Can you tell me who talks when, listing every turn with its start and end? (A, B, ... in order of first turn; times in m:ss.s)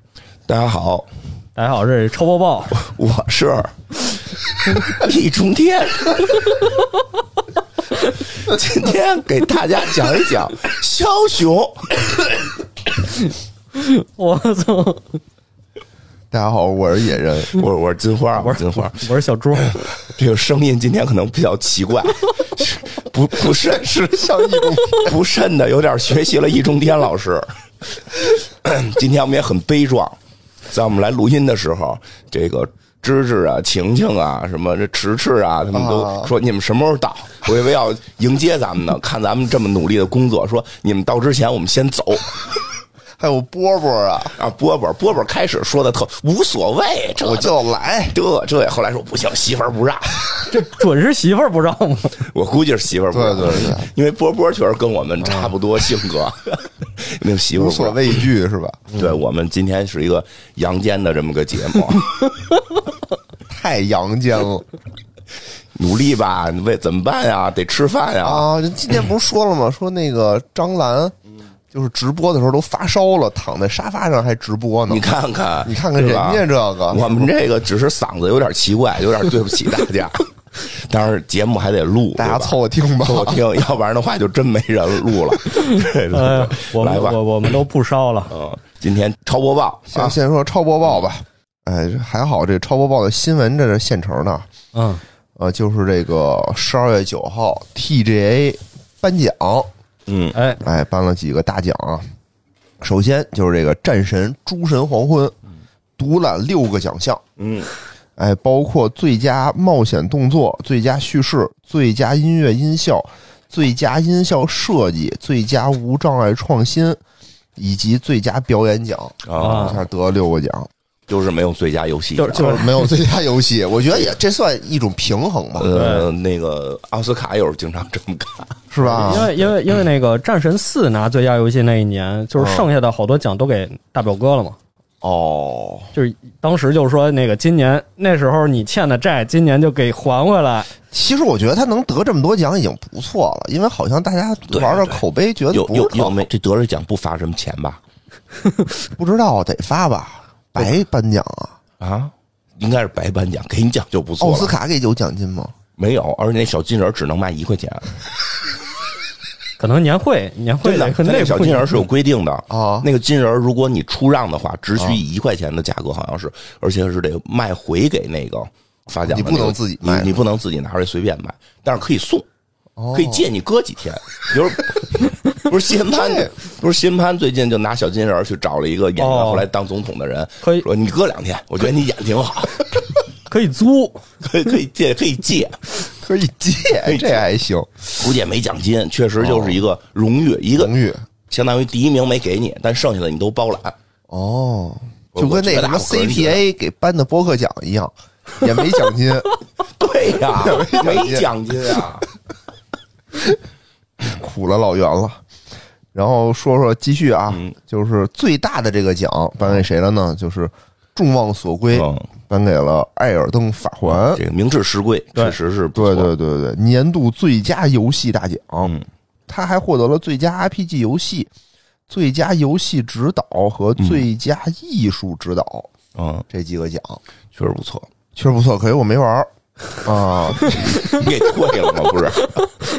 0:00.5-0:01.1 A
0:01.6-0:02.8 B
0:02.8-0:06.7 A
0:08.0-0:12.1 A
0:13.7-0:15.2 B
0:16.3-0:17.6 C
0:17.5-0:19.0 A
0:18.4-0:19.8 B
0:19.6-0:30.2 A
0:23.6-0:25.2 C
0:30.7-0:42.4 A
0:35.7-0:36.3 C
0:43.2-0:44.4 C
0:44.4-0:47.6 A
0:47.1-0:48.2 C
0:48.1-0:50.3 A
0:50.5-0:52.2 B
0:52.2-0:58.2 A
0:53.1-0:53.9 C
0:55.2-0:55.5 C
0:57.5-0:59.2 C
0:58.9-1:02.1 A
1:03.5-1:04.6 C
1:05.7-1:08.5 A
1:08.2-1:11.2 C
1:11.7-1:15.0 C
1:14.9-1:27.2 A
1:15.6-1:17.3 C
1:22.2-1:23.4 C
1:25.7-1:28.3 B
1:28.3-1:30.2 A
1:29.9-1:34.5 C
1:34.7-1:35.0 B
1:35.4-1:39.7 C
1:40.1-1:40.4 A
1:40.3-1:40.6 B
1:40.6-1:42.0 C
1:42.8-1:45.3 C
1:46.0-1:47.2 C
1:47.4-1:47.7 A
1:48.2-1:57.0 C
1:57.6-2:00.7 C
1:59.2-1:59.8 A
1:59.4-1:59.8 B
2:01.1-2:02.6 A
2:02.2-2:02.9 B
2:02.3-2:05.7 C
2:05.6-2:09.3 A
2:05.7-2:06.1 B
2:08.7-2:09.3 C
2:08.8-2:14.6 B
2:12.4-2:12.7 C
2:15.0-2:15.9 C
2:15.9-2:20.7 B
2:20.9-2:26.3 C
2:24.5-2:27.8 A
2:29.0-2:31.6 C
2:31.8-2:34.5 A
2:34.2-2:35.5 C
2:35.8-2:37.8 A
2:39.6-2:41.8 B
2:40.6-2:52.2 A
2:42.5-2:42.9 C
2:44.8-2:45.0 C
2:49.0-2:50.2 C
2:52.8-2:53.2 C
2:52.9-3:02.8 A
2:55.9-2:56.3 C
2:59.0-2:59.5 B
3:03.3-3:04.0 B
3:04.2-3:05.7 A
3:05.9-3:08.1 C
3:06.8-3:07.2 A
3:08.0-3:10.7 A
3:09.2-3:09.6 C
3:10.6-3:11.0 C
3:11.3-3:13.7 A
3:14.1-3:19.3 C
3:15.1-3:16.4 A
3:19.8-3:22.0 A
3:20.4-3:22.0 C
3:24.0-3:25.2 C
3:25.9-3:34.2 C
3:31.7-3:32.1 A
3:33.8-3:36.1 A
3:35.7-3:38.7 C
3:39.3-3:41.3 C
3:41.9-3:45.7 C
3:43.8-3:44.0 A
3:45.9-3:46.2 A
3:46.3-3:47.0 C
3:47.3-3:47.9 A
3:48.1-3:49.3 C
3:49.8-3:51.0 C
3:50.7-3:52.4 A